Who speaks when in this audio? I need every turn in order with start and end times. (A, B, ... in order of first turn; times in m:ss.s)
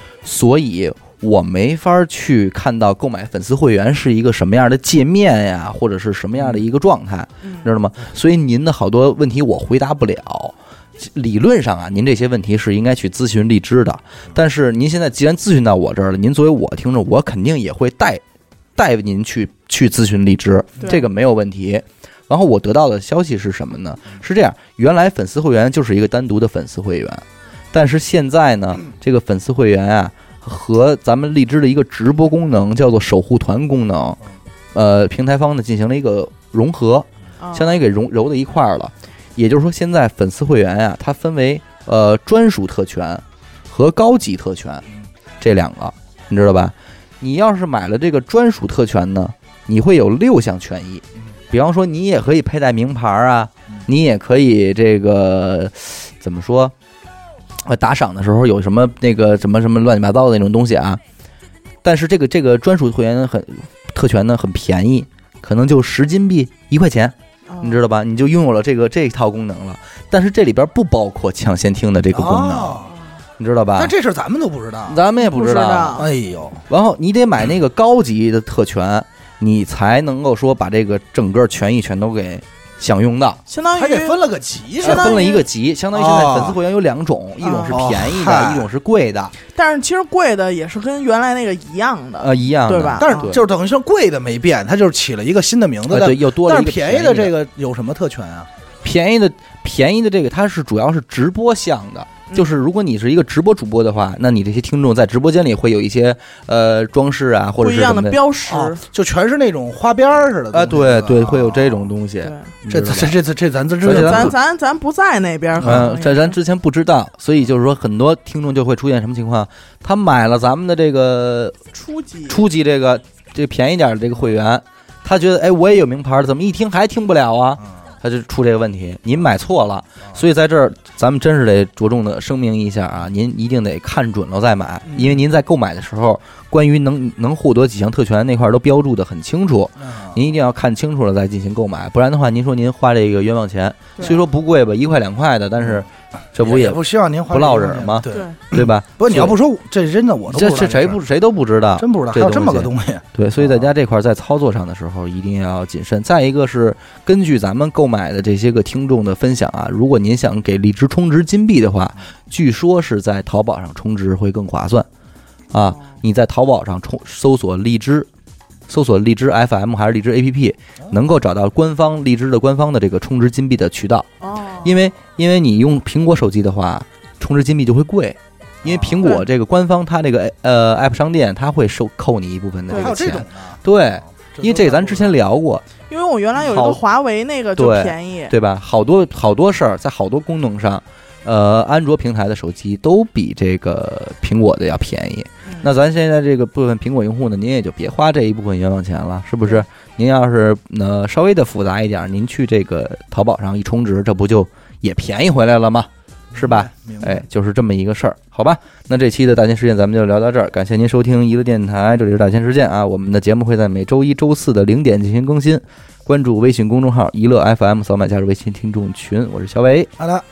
0:00.2-0:18.2 A
0:18.8-0:34.2 A
0:34.7-0:44.8 A
0:37.4-0:37.8 B
0:45.4-0:56.7 A
0:57.6-1:01.0 A
1:01.8-1:14.0 A
1:07.5-1:07.8 B
1:12.1-1:13.0 C
1:13.8-1:15.0 C
1:14.9-1:16.0 A
1:15.2-1:16.1 B
1:16.0-1:16.6 C
1:16.7-1:23.4 A
1:23.5-1:24.2 B
1:23.7-1:25.2 C
1:24.8-1:25.5 B
1:24.8-1:29.3 A
1:25.9-1:26.6 C
1:27.4-1:27.8 B
1:27.7-1:28.7 C
1:29.5-1:33.4 B
1:32.2-1:33.4 A
1:33.0-1:38.5 C
1:35.9-1:37.3 A
1:38.8-1:48.2 A
1:47.6-1:48.8 B
1:48.5-1:51.8 C
1:50.5-1:53.2 A
1:52.2-1:52.5 B
1:52.7-1:54.3 C
1:53.8-1:54.4 A
1:53.8-1:56.4 B
1:55.6-2:01.6 A
2:01.7-2:02.4 B
2:02.3-2:29.4 A
2:26.4-2:28.4 C
2:28.1-2:28.4 B
2:29.0-2:31.0 C
2:30.3-2:44.9 A
2:31.8-2:33.0 C
2:45.5-2:48.1 A
2:48.7-2:54.1 A
2:54.2-2:54.7 B
2:54.6-3:05.6 A
2:58.6-2:59.1 C
3:02.7-3:03.0 B
3:02.7-3:03.6 C
3:04.2-3:05.2 C
3:05.9-3:08.3 B
3:06.4-3:06.8 A
3:07.6-3:39.9 A
3:26.4-3:27.2 C
3:40.0-3:40.2 C